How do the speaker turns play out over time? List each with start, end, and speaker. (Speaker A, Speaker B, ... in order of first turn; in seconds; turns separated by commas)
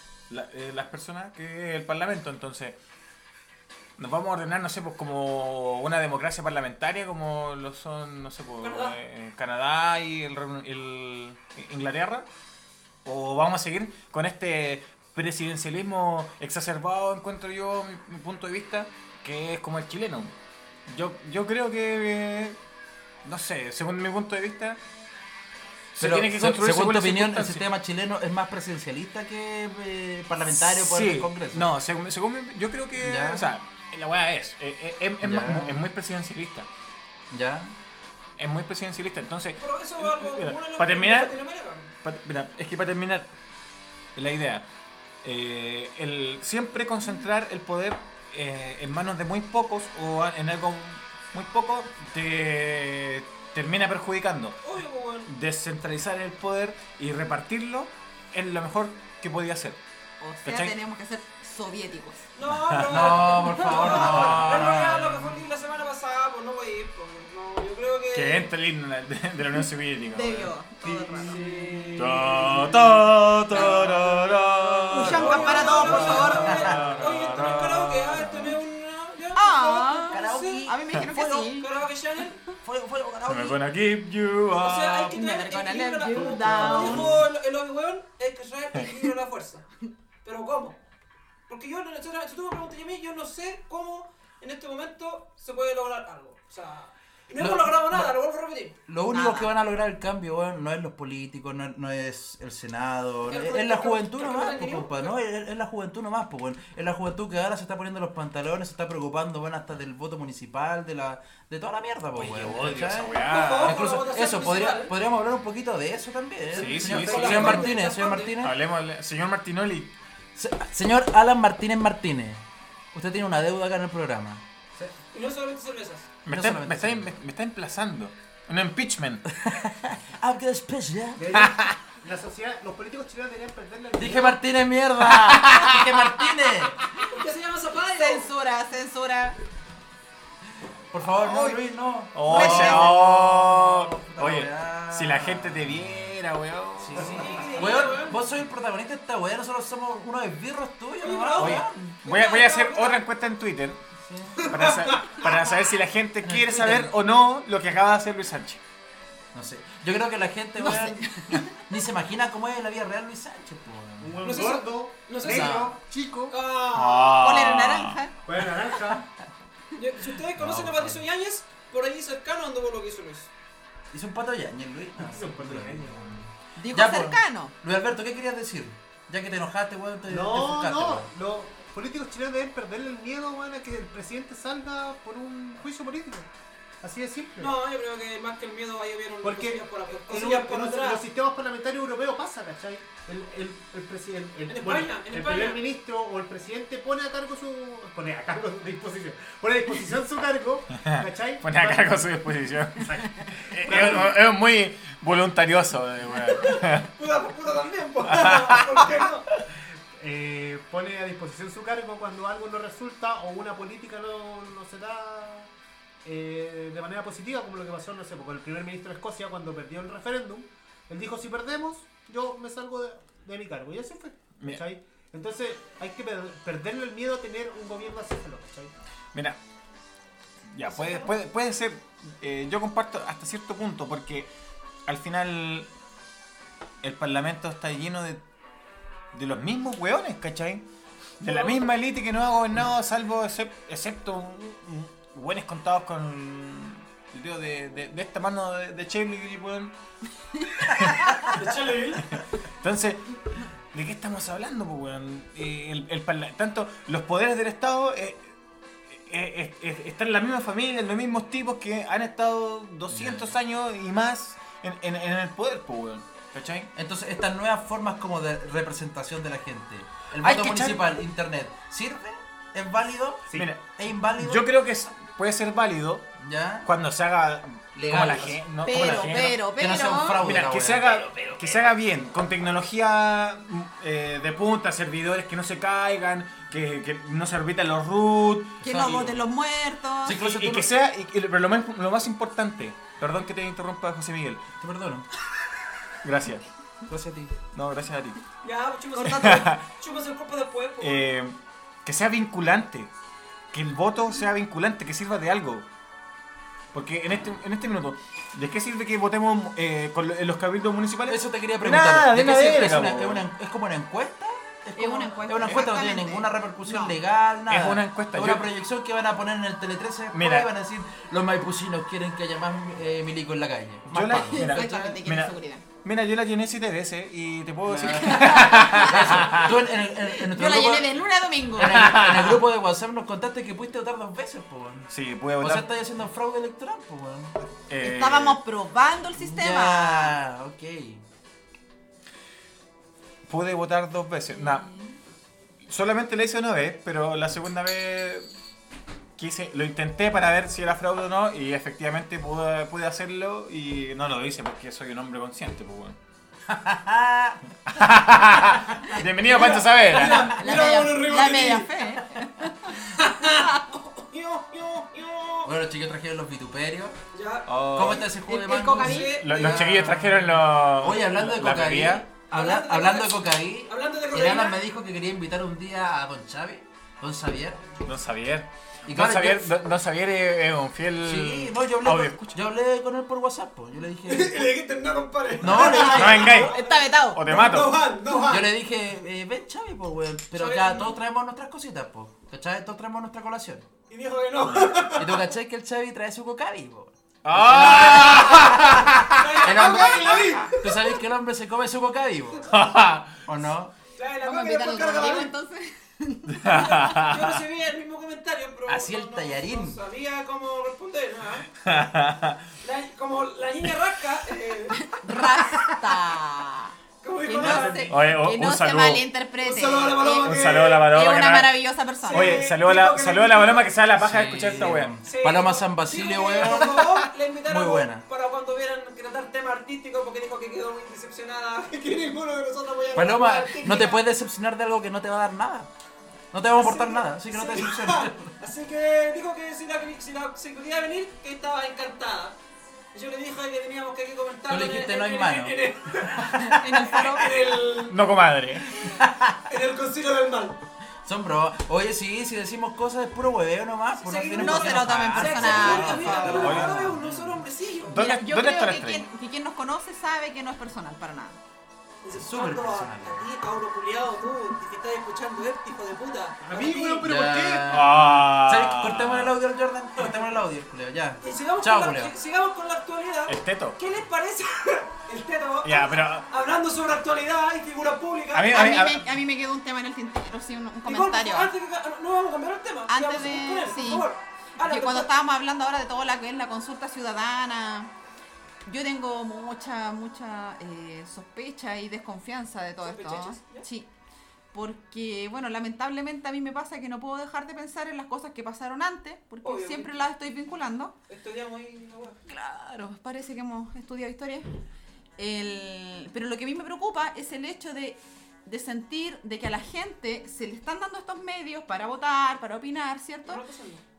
Speaker A: 0.3-2.8, Speaker A: 4.0-12.3, Speaker B: 8.6-9.0, Speaker A: 13.1-20.3, Speaker A: 20.9-22.6, Speaker A: 23.2-24.8, Speaker A: 26.0-27.7, Speaker C: 26.0-31.7, Speaker A: 30.5-36.7, Speaker C: 33.0-33.5, Speaker C: 35.2-35.8, Speaker C: 37.3-37.7, Speaker A: 38.4-41.4, Speaker B: 39.6-41.9, Speaker A: 42.0-43.3, Speaker A: 44.1-44.7, Speaker A: 45.2-54.6, Speaker B: 54.6-55.3, Speaker A: 55.3-59.8, Speaker D: 60.2-62.3, Speaker A: 60.4-60.8, Speaker B: 62.4-68.5, Speaker A: 62.5-64.8, Speaker C: 62.9-65.4, Speaker A: 68.1-70.5, Speaker D: 70.1-71.4, Speaker E: 71.1-71.3, Speaker B: 71.2-72.0, Speaker C: 71.2-72.1, Speaker A: 72.0-78.6, Speaker E: 72.0-72.4, Speaker B: 73.5-74.0, Speaker B: 74.9-80.7, Speaker D: 74.9-76.8, Speaker C: 75.7-77.8, Speaker D: 79.3-81.7, Speaker C: 80.1-81.5, Speaker B: 81.3-82.4, Speaker C: 82.6-83.6, Speaker A: 83.3-85.2, Speaker B: 84.6-89.7, Speaker D: 85.1-87.1, Speaker A: 86.2-87.2, Speaker B: 90.2-90.8, Speaker B: 91.5-98.8, Speaker C: 97.4-98.1, Speaker C: 98.9-118.6, Speaker D: 99.1-99.5, Speaker B: 103.3-105.2, Speaker A: 112.2-113.8, Speaker B: 113.2-115.0, Speaker A: 116.5-117.8, Speaker B: 116.5-118.4, Speaker A: 118.4-119.9, Speaker C: 120.4-124.4, Speaker B: 125.1-126.1, Speaker A: 126.2-129.2, Speaker C: 126.3-127.1, Speaker C: 129.3-131.3, Speaker E: 131.2-134.4, Speaker A: 131.3-131.7, Speaker C: 134.0-136.8, Speaker A: 135.0-135.9, Speaker D: 136.8-137.1, Speaker B: 137.0-138.3, Speaker D: 137.9-139.4, Speaker C: 140.9-146.1, Speaker A: 141.1-147.9, Speaker D: 142.3-142.9, Speaker C: 146.8-151.8, Speaker B: 147.0-148.2, Speaker B: 151.0-153.1, Speaker A: 151.4-153.8, Speaker C: 154.0-154.5, Speaker B: 154.4-155.4, Speaker A: 154.5-158.6, Speaker C: 156.2-157.0, Speaker C: 159.3-164.2, Speaker D: 160.6-161.6, Speaker E: 164.0-166.4, Speaker B: 164.2-165.8, Speaker C: 165.2-165.7, Speaker B: 166.3-167.3, Speaker A: 166.7-168.0, Speaker D: 167.2-168.2, Speaker E: 168.2-169.1, Speaker B: 169.8-173.3, Speaker C: 170.3-171.0, Speaker C: 173.9-181.1, Speaker E: 175.0-176.3, Speaker D: 176.6-177.5, Speaker E: 180.1-186.3, Speaker E: 186.8-187.6, Speaker B: 187.4-191.0, Speaker E: 189.2-202.1, Speaker B: 194.5-195.6, Speaker A: 200.8-206.9, Speaker E: 202.8-204.2, Speaker B: 206.2-209.3, Speaker A: 208.1-209.1, Speaker E: 209.9-215.5, Speaker E: 216.0-228.7, Speaker A: 230.5-234.3, Speaker A: 234.9-235.7, Speaker A: 236.8-238.2, Speaker A: 239.1-240.7, Speaker A: 241.2-249.8, Speaker B: 241.2-241.7, Speaker A: 250.6-253.2, Speaker B: 251.2-252.2, Speaker A: 253.7-258.3, Speaker A: 258.9-266.7, Speaker C: 262.9-263.4, Speaker C: 266.8-274.5, Speaker A: 270.2-270.9, Speaker A: 273.3-276.1, Speaker C: 276.2-276.7, Speaker A: 276.6-279.4, Speaker C: 277.8-278.4, Speaker D: 278.6-280.2, Speaker C: 279.6-281.7, Speaker A: 280.2-289.2, Speaker D: 288.6-290.2, Speaker C: 288.6-289.2, Speaker C: 290.0-290.7, Speaker A: 290.2-294.4, Speaker C: 294.6-295.1, Speaker A: 296.0-296.4, Speaker C: 296.9-297.3, Speaker A: 297.5-298.2, Speaker B: 298.4-301.1, Speaker A: 299.0-299.6, Speaker A: 300.8-302.9, Speaker A: 303.5-305.6, Speaker A: 306.7-313.2, Speaker C: 311.1-325.0, Speaker D: 314.8-317.0, Speaker A: 317.5-318.5, Speaker A: 320.1-320.5, Speaker A: 323.9-329.6, Speaker D: 324.3-325.7, Speaker C: 327.7-330.9, Speaker D: 327.9-329.4, Speaker D: 330.1-332.0, Speaker C: 331.5-337.4, Speaker A: 331.7-332.4, Speaker A: 334.9-335.7, Speaker A: 337.7-338.4, Speaker D: 337.8-340.2, Speaker C: 339.2-341.0, Speaker A: 343.3-344.7, Speaker D: 344.3-345.0, Speaker A: 345.6-348.3, Speaker A: 349.2-356.0, Speaker C: 356.5-357.4, Speaker A: 357.7-360.6, Speaker B: 359.2-361.9, Speaker D: 359.9-362.9, Speaker B: 362.9-365.5, Speaker C: 365.4-367.0, Speaker B: 367.1-369.7, Speaker A: 367.5-368.1, Speaker C: 367.7-377.6, Speaker D: 368.3-369.2, Speaker A: 369.1-372.1, Speaker B: 372.3-374.6, Speaker A: 377.8-382.4, Speaker C: 378.9-379.5, Speaker C: 381.0-384.5, Speaker B: 384.1-388.5, Speaker C: 385.4-386.4, Speaker A: 385.5-387.9, Speaker D: 386.4-387.2, Speaker C: 388.3-393.7, Speaker B: 390.3-391.0, Speaker B: 393.9-395.3, Speaker C: 394.9-402.6, Speaker A: 397.2-399.7, Speaker B: 399.1-401.0, Speaker A: 402.5-403.2, Speaker C: 403.2-403.7, Speaker B: 404.0-405.3, Speaker D: 404.2-406.9, Speaker A: 406.3-407.4, Speaker B: 406.4-411.5, Speaker C: 408.7-409.8, Speaker A: 411.6-412.5, Speaker B: 412.6-414.9, Speaker D: 414.8-422.5, Speaker B: 417.0-418.0, Speaker A: 417.9-419.1, Speaker B: 419.4-420.9, Speaker A: 420.2-424.9, Speaker B: 422.0-423.7, Speaker C: 424.0-426.9, Speaker B: 425.1-434.0, Speaker C: 427.5-428.0, Speaker C: 432.9-435.7, Speaker C: 436.3-438.3, Speaker B: 436.6-442.4, Speaker B: 442.9-448.0, Speaker C: 444.5-445.6, Speaker C: 446.1-446.6, Speaker D: 446.4-447.3, Speaker A: 447.9-449.0, Speaker C: 449.0-449.4, Speaker B: 449.5-450.6, Speaker C: 451.0-457.4, Speaker B: 454.0-458.0, Speaker D: 454.4-456.6, Speaker A: 455.4-457.0, Speaker A: 457.9-459.1, Speaker D: 457.9-461.4, Speaker B: 462.0-467.1, Speaker C: 462.1-463.2, Speaker E: 466.4-467.8, Speaker C: 467.0-472.1, Speaker A: 467.7-469.3, Speaker B: 471.2-478.7, Speaker A: 473.3-473.8, Speaker A: 475.6-476.3, Speaker A: 478.3-479.1, Speaker D: 478.5-481.5, Speaker B: 480.9-485.1, Speaker D: 482.9-484.1, Speaker D: 484.6-487.9, Speaker D: 488.6-493.9, Speaker B: 492.8-493.7, Speaker D: 494.5-500.9, Speaker B: 499.4-500.0, Speaker B: 501.1-502.2, Speaker D: 502.3-504.5, Speaker D: 505.2-513.4, Speaker B: 513.2-513.8